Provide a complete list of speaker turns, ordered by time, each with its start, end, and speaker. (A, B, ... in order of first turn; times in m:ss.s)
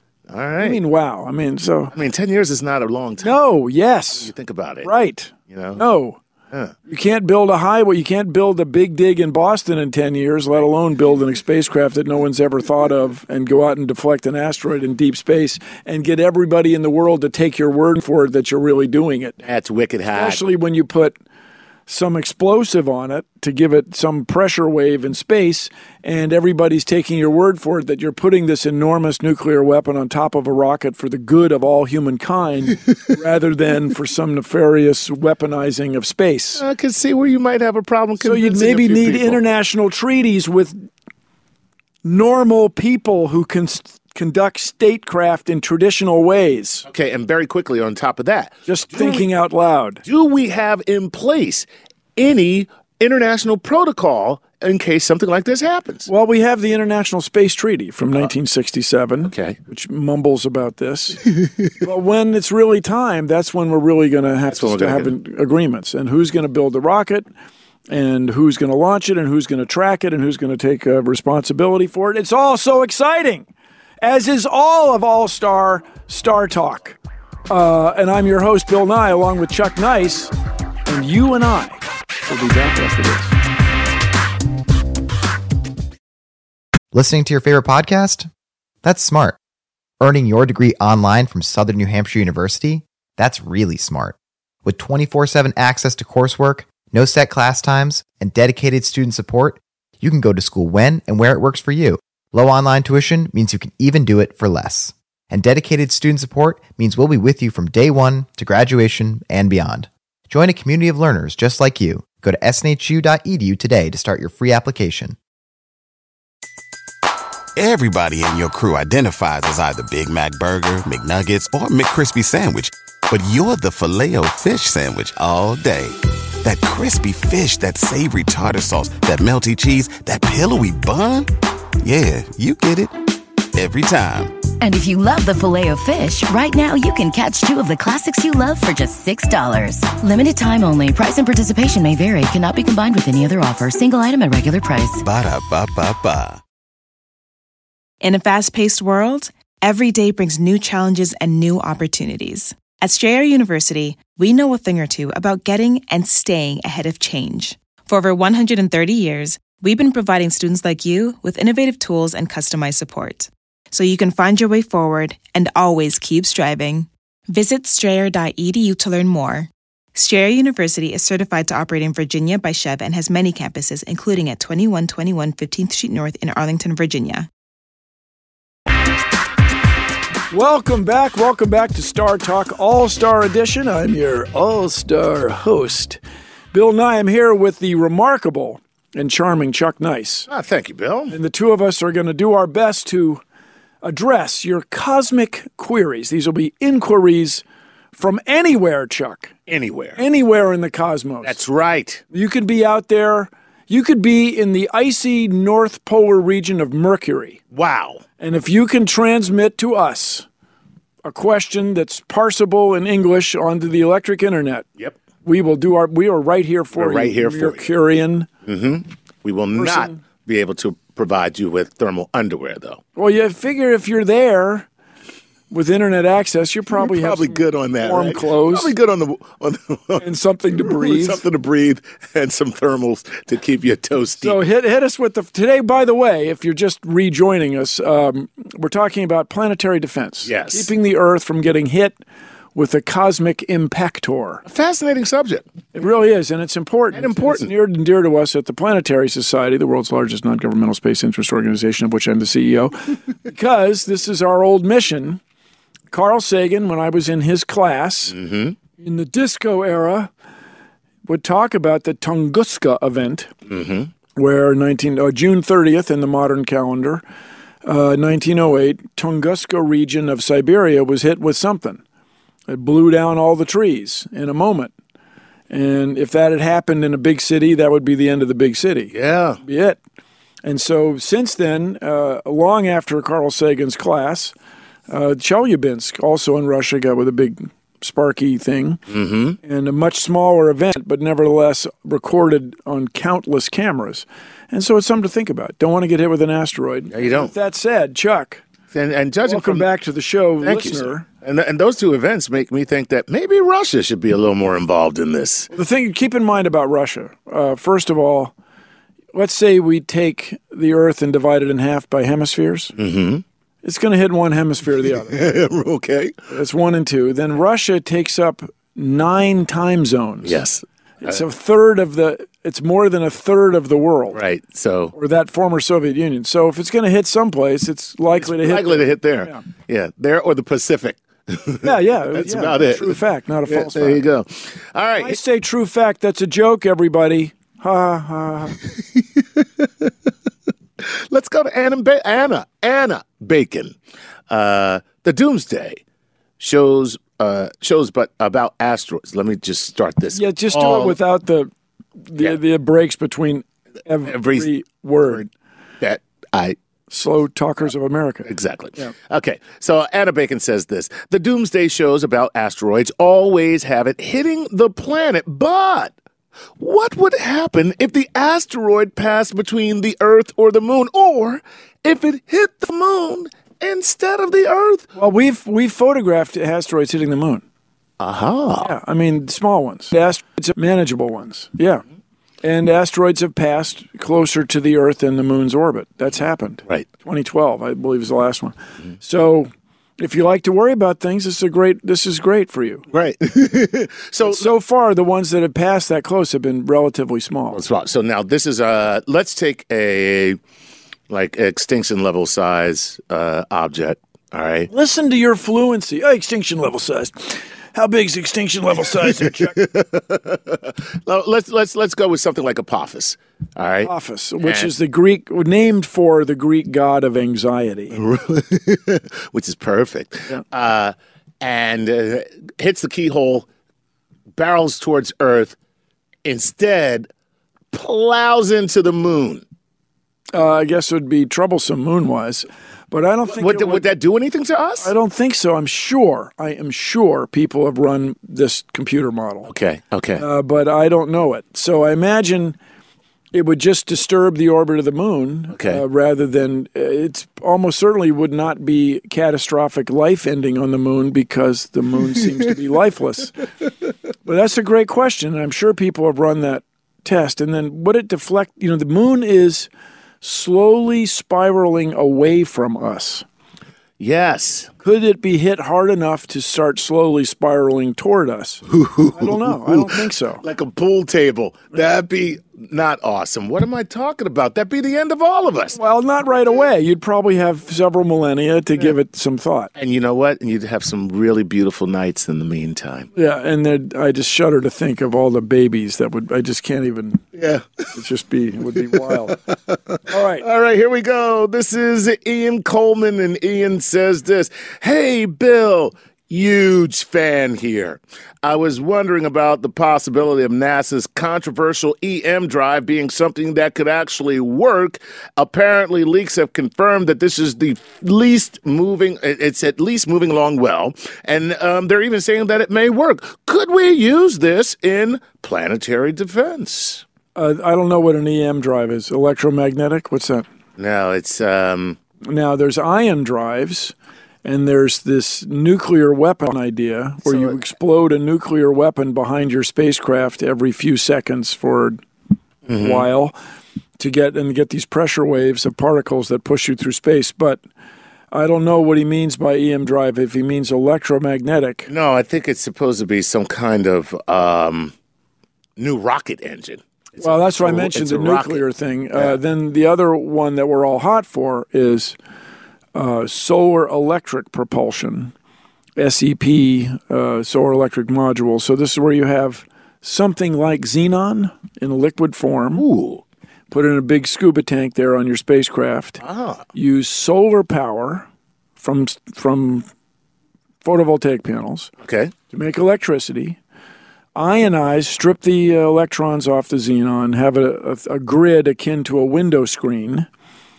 0:00.3-0:00.8 A
0:00.6-0:01.9 B
0:01.9-0:03.3 A
0:03.2-0:04.3 B
0:04.2-0:04.9 A
0:04.8-0:06.2 B
0:05.5-0:05.8 A
0:06.9-0:19.4 B
0:19.4-0:20.4 A
0:20.1-0:21.1 B
0:21.9-0:36.6 B
0:36.6-0:39.4 A
0:38.2-0:40.8 B
0:42.0-0:46.8 B
0:46.9-0:49.2 A
0:48.7-0:50.0 B
0:50.0-0:56.1 A
0:56.1-1:07.2 B
0:59.2-0:59.6 A
1:04.5-1:05.1 A
1:07.9-1:13.5 B
1:14.0-1:17.0 B
1:17.5-1:20.3 B
1:20.8-1:23.3 B
1:26.9-1:28.3 C
1:28.8-1:29.4 C
1:30.0-1:55.2 C
1:57.6-2:11.3 D
2:11.8-2:12.9 D
2:13.5-2:14.4 D
2:14.6-2:25.0 E
2:25.0-2:26.4 D
2:28.0-2:57.3 F
3:00.3-3:06.0 B
3:06.5-3:10.3 B
3:10.3-3:11.2 A
3:11.1-3:13.2 B
3:13.8-3:17.4 B
3:17.9-3:19.4 B
3:19.5-3:20.0 A
3:20.0-3:21.4 B
3:21.2-3:22.0 A
3:22.1-3:27.4 B
3:27.5-3:28.0 A
3:28.2-3:30.2 B
3:31.0-3:34.7 B
3:35.2-3:38.3 B
3:36.7-3:37.6 A
3:38.4-3:42.8 A
3:39.5-3:40.0 B
3:43.0-3:44.7 B
3:45.5-3:48.7 B
3:46.8-3:50.0 A
3:50.0-3:51.2 B
3:50.6-3:54.4 A
3:54.2-4:02.0 B
4:00.2-4:00.7 A
4:02.5-4:04.4 B
4:04.4-4:05.5 A
4:05.7-4:15.2 B
4:06.9-4:07.5 A
4:15.9-4:18.2 B
4:18.1-4:18.6 A
4:18.8-4:20.1 B
4:21.0-4:23.3 B
4:23.5-4:23.9 A
4:24.1-4:27.0 B
4:27.6-4:31.8 B
4:32.5-4:34.7 B
4:35.5-4:39.8 B
4:38.9-4:39.4 A
4:40.4-4:44.3 B
4:44.9-4:48.8 B
4:48.9-4:49.4 A
4:49.4-4:58.4 B
4:56.9-4:57.3 A
4:58.7-4:59.7 A
4:59.2-5:01.0 B
5:00.4-5:05.5 A
5:05.5-5:08.3 B
5:09.1-5:12.7 B
5:12.8-5:13.2 A
5:13.6-5:15.2 B
5:15.0-5:16.2 A
5:16.3-5:20.4 B
5:20.2-5:21.2 A
5:21.0-5:24.2 B
5:24.1-5:24.9 A
5:24.9-5:29.4 B
5:28.2-5:35.2 A
5:31.6-5:34.0 B
5:35.0-5:38.6 B
5:38.7-5:39.9 A
5:40.8-5:43.8 A
5:44.3-5:45.8 A
5:46.4-5:51.0 A
5:50.1-5:51.5 B
5:52.1-5:55.3 B
5:54.0-5:54.5 A
5:55.8-5:56.6 A
5:56.9-5:58.9 B
5:58.2-6:05.9 A
6:06.6-6:14.8 A
6:15.0-6:17.4 B
6:18.0-6:18.7 A
6:18.6-6:21.8 B
6:22.4-6:32.8 B
6:32.9-6:34.5 A
6:34.2-6:37.6 B
6:37.5-6:40.4 A
6:41.1-6:44.7 A
6:44.7-6:49.6 B
6:49.0-6:53.9 A
6:53.8-6:58.0 B
6:54.4-6:54.7 A
6:57.9-7:03.5 A
7:04.4-7:05.6 A
7:06.2-7:07.1 A
7:07.7-7:09.4 A
7:10.3-7:13.8 B
7:13.3-7:14.9 A
7:14.8-7:19.5 B
7:19.5-7:20.2 A
7:20.2-7:22.6 B
7:23.3-7:33.4 B
7:25.5-7:25.8 A
7:34.2-7:39.7 B
7:40.2-7:43.2 B
7:44.0-7:44.7 A
7:44.8-7:50.4 B
7:48.7-7:55.8 A
7:55.7-7:59.7 B
7:59.8-8:03.1 A
8:03.1-8:07.3 B
8:07.4-8:07.9 A
8:07.9-8:09.4 B
8:08.9-8:37.0 A
8:10.1-8:10.4 B
8:37.3-8:40.4 B
8:40.8-8:42.0 A
8:42.2-8:43.9 B
8:44.4-8:52.0 B
8:47.3-8:47.6 A
8:52.6-8:53.1 A
8:52.7-8:53.3 B
8:54.0-8:57.6 B
8:58.3-9:01.9 B
9:01.9-9:04.9 A
9:05.8-9:08.6 A
9:07.2-9:12.1 B
9:12.9-9:15.3 B
9:16.0-9:22.8 B
9:22.8-9:23.2 A
9:23.7-9:26.2 B
9:26.2-9:26.6 A
9:26.7-9:28.3 B
9:28.8-9:29.9 B
9:30.8-9:31.9 B
9:32.0-9:32.3 A
9:32.5-9:33.6 B
9:34.3-9:40.3 B